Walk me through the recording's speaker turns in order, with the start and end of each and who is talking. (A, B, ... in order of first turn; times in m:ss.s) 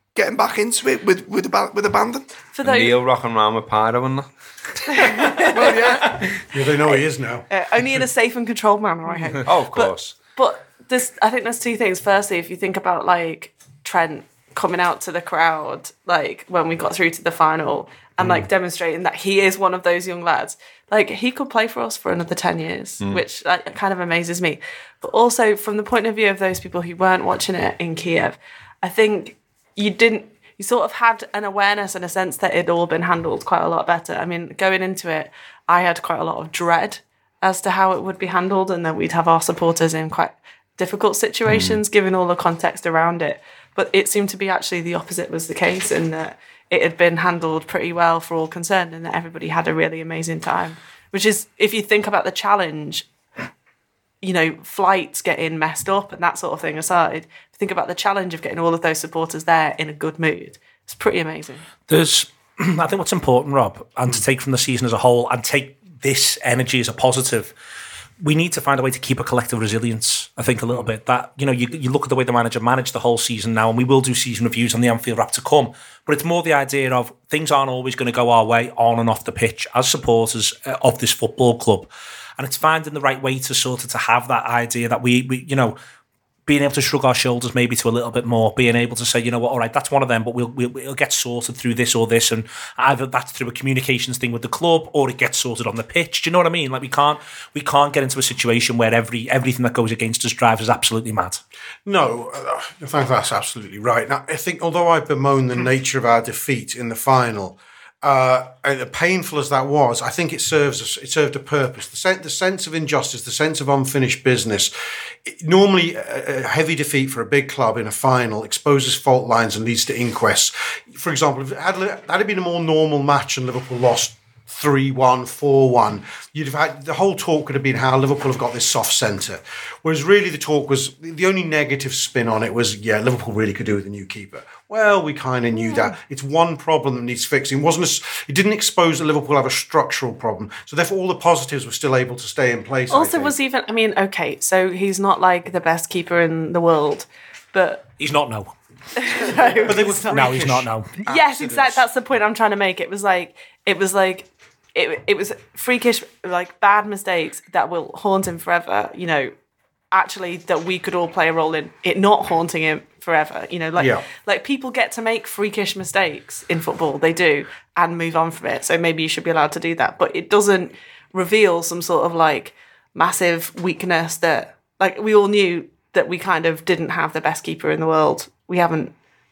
0:00.1-0:02.3 A
0:02.5-0:02.9 B
0:02.6-0:05.1 C
0:04.9-0:53.1 B
0:05.5-0:06.2 A
0:06.4-0:07.5 D
0:09.4-0:10.1 C
0:18.2-0:18.5 C
0:41.5-0:41.8 C
0:54.2-1:01.7 B
1:01.9-1:07.5 E
1:08.2-1:25.8 E
1:26.5-1:41.4 E
1:41.8-1:54.7 D
1:55.2-2:23.3 D
2:22.9-2:27.9 B
2:28.0-2:28.5 E
2:29.0-2:39.3 B
2:29.6-2:31.9 D
2:30.1-2:30.9 E
2:39.9-2:58.9 B
2:43.8-2:44.0 D